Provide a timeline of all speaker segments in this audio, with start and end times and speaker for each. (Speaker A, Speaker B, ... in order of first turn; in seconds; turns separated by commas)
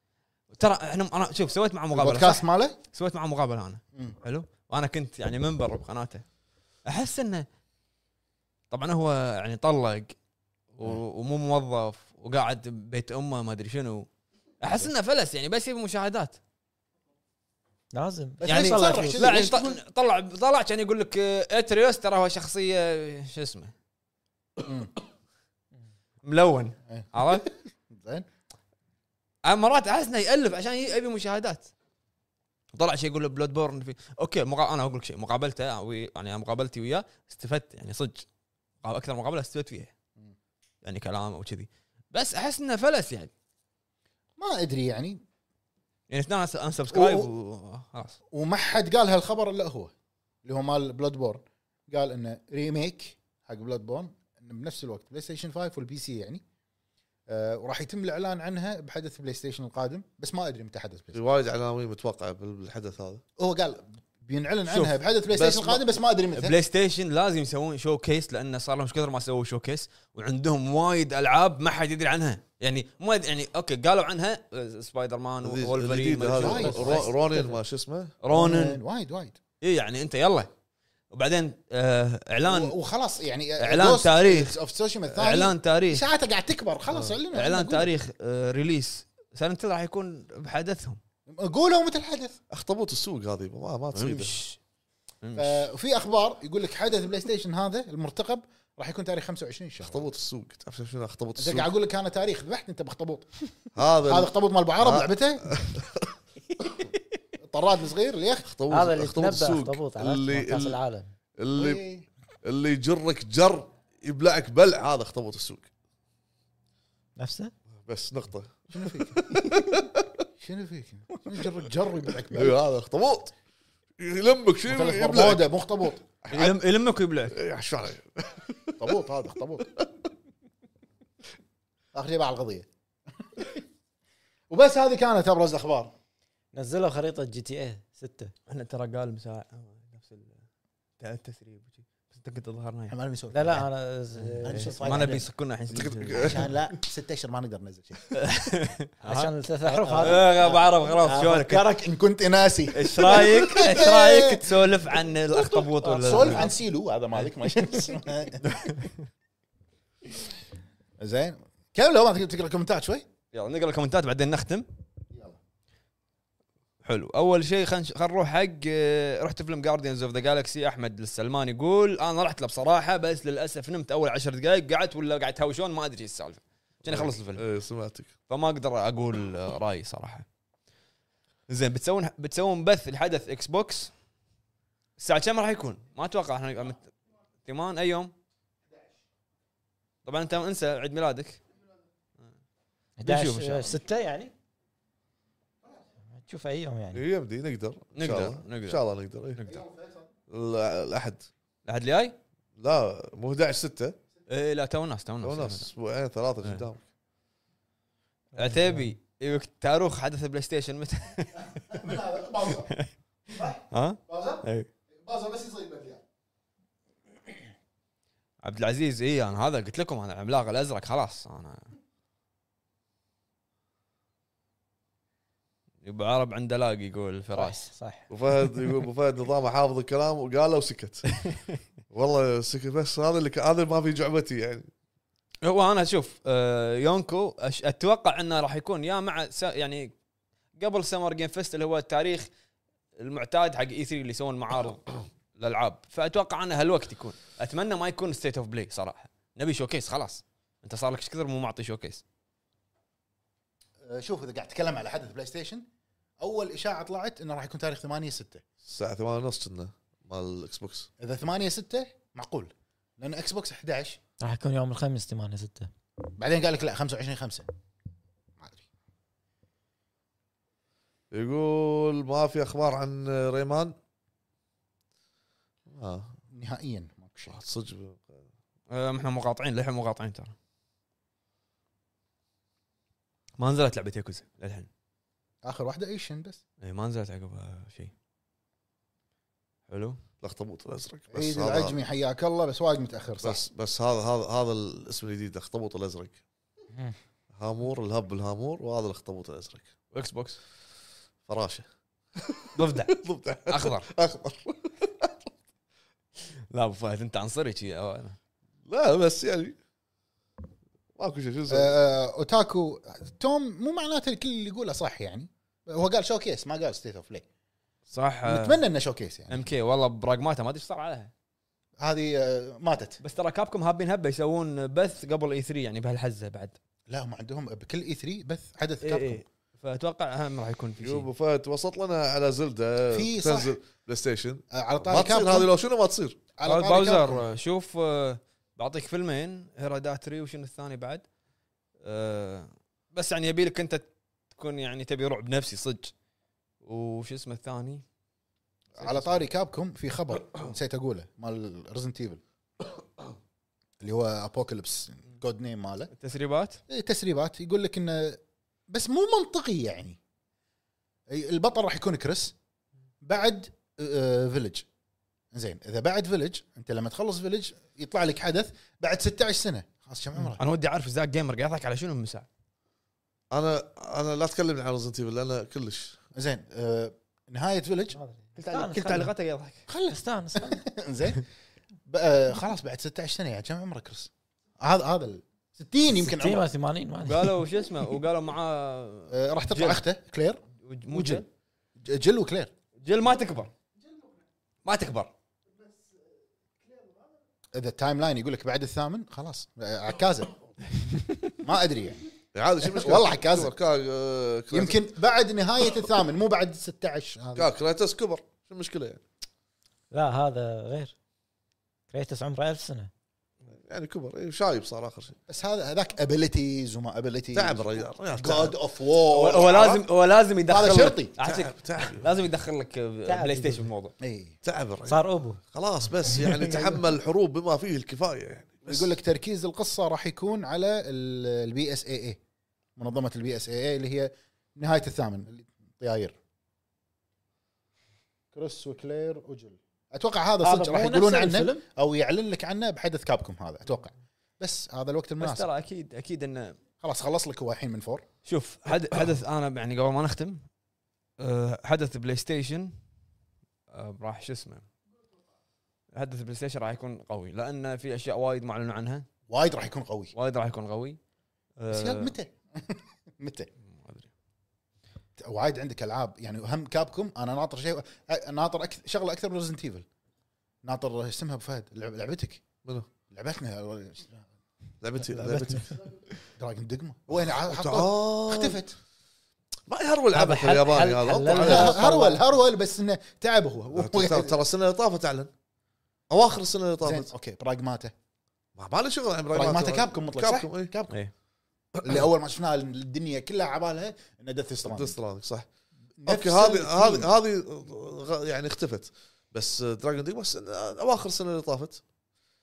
Speaker A: 0.5-6.2, Speaker B: 1.9-2.8, Speaker A: 6.8-7.5, Speaker A: 8.7-10.1, Speaker A: 10.8-14.1, Speaker A: 14.6-16.4, Speaker C: 17.9-19.2, Speaker B: 18.4-19.8, Speaker A: 18.4-23.7, Speaker B: 24.6-24.9, Speaker A: 26.2-27.5, Speaker B: 26.9-28.2, Speaker A: 29.4-31.7, Speaker A: 32.7-38.2, Speaker A: 38.8-39.9, Speaker A: 40.8-43.3, Speaker B: 44.4-45.2, Speaker A: 46.1-48.2, Speaker B: 46.9-47.3, Speaker B: 48.3-49.9, Speaker B: 50.4-56.4, Speaker B: 57.3-61.2, Speaker D: 61.1-63.2, Speaker B: 63.4-66.5, Speaker A: 64.7-65.0, Speaker D: 65.3-65.8, Speaker A: 66.3-77.1, Speaker D: 75.4-78.1, Speaker B: 76.3-77.1, Speaker A: 78.2-78.8, Speaker B: 78.3-79.3, Speaker A: 79.6-80.5, Speaker A: 81.1-82.8, Speaker B: 82.4-87.9, Speaker A: 83.6-84.6, Speaker A: 85.1-86.0, Speaker A: 87.3-91.0, Speaker B: 91.3-92.4, Speaker D: 92.5-94.3, Speaker A: 93.9-94.6, Speaker A: 95.2-95.7, Speaker B: 95.3-100.0, Speaker D: 99.8-101.7, Speaker B: 101.4-105.6, Speaker D: 103.8-106.1, Speaker B: 107.4-108.5, Speaker D: 108.4-110.8, Speaker C: 108.7-111.1, Speaker D: 111.4-111.8, Speaker B: 111.5-112.0, Speaker D: 112.4-115.7, Speaker C: 117.2-117.5, Speaker D: 117.8-120.1, Speaker B: 118.7-119.3, Speaker B: 120.4-122.6, Speaker D: 122.3-123.3, Speaker D: 124.0-125.5, Speaker B: 124.7-126.2, Speaker A: 126.3-127.4, Speaker D: 127.3-129.0, Speaker B: 128.8-129.7, Speaker B: 131.9-132.7, Speaker B: 133.3-133.6, Speaker B: 134.5-135.9, Speaker C: 136.5-138.3, Speaker A: 138.5-140.4, Speaker A: 141.0-142.9, Speaker B: 142.9-143.7, Speaker C: 143.3-145.2, Speaker B: 144.4-148.2, Speaker A: 144.4-146.6, Speaker D: 145.7-146.5, Speaker A: 148.1-149.3, Speaker C: 149.0-150.5, Speaker B: 149.7-154.6, Speaker A: 150.0-151.7, Speaker A: 152.7-156.5, Speaker B: 155.3-158.4, Speaker A: 158.4-158.9, Speaker B: 161.0-163.1, Speaker A: 163.3-164.7, Speaker B: 165.1-165.4, Speaker A: 166.8-177.4, Speaker D: 176.8-178.1, Speaker A: 178.3-180.2, Speaker A: 181.5-183.9, Speaker A: 185.0-186.9, Speaker A: 187.4-188.1, Speaker A: 190.0-191.4, Speaker C: 193.0-194.3, Speaker A: 193.1-193.8, Speaker C: 196.2-197.0, Speaker D: 196.9-199.4, Speaker A: 197.9-198.8, Speaker A: 199.3-199.6, Speaker B: 199.4-200.1, Speaker D: 200.3-201.3, Speaker A: 201.6-202.2, Speaker D: 202.6-204.0, Speaker A: 204.3-205.7, Speaker D: 205.2-206.8, Speaker C: 208.3-208.9, Speaker A: 208.4-212.9, Speaker B: 211.7-212.7, Speaker B: 213.3-216.0, Speaker A: 213.7-214.7, Speaker A: 218.4-221.7, Speaker A: 225.8-227.6, Speaker C: 227.3-228.1, Speaker D: 228.1-231.1, Speaker D: 231.9-234.7, Speaker A: 235.4-239.9, Speaker A: 240.6-242.3, Speaker A: 242.9-252.0, Speaker B: 253.8-255.6, Speaker B: 256.2-258.4, Speaker D: 258.6-260.9, Speaker B: 261.0-264.0, Speaker C: 264.2-265.7, Speaker B: 266.1-267.5, Speaker B: 268.4-268.6, Speaker D: 271.1-273.7, Speaker D: 275.7-276.1, Speaker B: 276.3-277.4, Speaker D: 277.3-278.2, Speaker A: 278.7-280.3, Speaker A: 283.4-284.7, Speaker B: 285.4-286.4, Speaker A: 286.6-287.9, Speaker A: 289.7-290.0, Speaker D: 290.2-291.8, Speaker B: 291.1-293.4, Speaker D: 293.2-296.2, Speaker D: 297.3-299.7, Speaker A: 299.9-300.4, Speaker D: 301.3-301.6, Speaker D: 302.1-305.1, Speaker A: 302.6-303.0, Speaker A: 303.5-303.9, Speaker A: 306.5-308.2, Speaker D: 308.7-309.6, Speaker D: 310.9-311.7, Speaker B: 311.5-317.2, Speaker A: 317.9-318.6, Speaker B: 318.2-319.5, Speaker A: 319.3-321.1, Speaker B: 321.8-323.0, Speaker A: 323.0-326.6, Speaker B: 326.9-329.2, Speaker A: 328.8-331.1, Speaker D: 330.8-336.2, Speaker B: 332.9-333.5, Speaker B: 334.5-335.5, Speaker B: 336.4-337.2, Speaker A: 336.4-341.0, Speaker A: 341.8-345.9, Speaker A: 346.6-347.8, Speaker B: 348.8-352.2, Speaker A: 348.8-349.2, Speaker B: 353.8-355.9, Speaker A: 355.9-356.6, Speaker B: 356.7-360.0, Speaker B: 361.1-362.3, Speaker B: 363.0-364.6, Speaker B: 365.3-370.4, Speaker A: 370.4-372.3, Speaker D: 373.3-376.0, Speaker B: 376.1-378.0, Speaker C: 377.9-379.1, Speaker A: 378.4-379.6, Speaker B: 379.7-381.2, Speaker C: 379.9-380.6, Speaker B: 381.9-386.5, Speaker C: 386.0-387.4, Speaker A: 387.0-389.8, Speaker B: 389.1-390.4, Speaker A: 390.6-391.3, Speaker B: 390.9-391.2, Speaker B: 391.8-392.5, Speaker A: 392.8-393.5, Speaker A: 394.6-395.1, Speaker B: 397.5-400.5, Speaker B: 401.3-402.0, Speaker D: 402.3-404.9, Speaker B: 402.6-403.5, Speaker B: 404.5-407.5, Speaker D: 407.4-409.0, Speaker C: 409.9-410.9, Speaker C: 411.9-412.9, Speaker D: 413.5-415.1, Speaker B: 415.3-419.6, Speaker D: 417.3-418.6, Speaker A: 419.0-423.9, Speaker D: 419.4-419.8, Speaker B: 420.5-421.1, Speaker D: 421.2-422.1, Speaker C: 423.1-423.7, Speaker B: 424.0-424.4, Speaker D: 424.4-428.9, Speaker C: 424.9-425.4, Speaker C: 426.0-426.8, Speaker B: 428.6-432.2, Speaker B: 432.8-436.1, Speaker B: 438.3-445.5, Speaker C: 440.4-441.6, Speaker A: 445.2-446.6, Speaker B: 446.8-448.0, Speaker A: 448.2-450.4, Speaker A: 451.2-452.8, Speaker A: 453.7-454.7, Speaker A: 455.9-459.1, Speaker B: 459.3-460.1, Speaker A: 460.1-461.0, Speaker A: 461.6-462.1, Speaker B: 461.7-463.5, Speaker A: 463.8-464.1, Speaker B: 465.2-469.9, Speaker B: 470.6-472.4, Speaker B: 473.1-474.2, Speaker D: 474.8-475.7, Speaker C: 475.1-475.7, Speaker B: 476.4-478.8, Speaker D: 477.1-478.6, Speaker D: 479.7-481.8, Speaker C: 480.1-482.2, Speaker B: 481.3-484.4, Speaker D: 483.7-485.3, Speaker D: 486.1-487.1, Speaker B: 486.8-487.9, Speaker D: 488.6-490.7, Speaker B: 489.3-491.0, Speaker B: 491.8-494.9, Speaker D: 494.6-495.5, Speaker B: 496.0-497.1, Speaker D: 496.1-501.8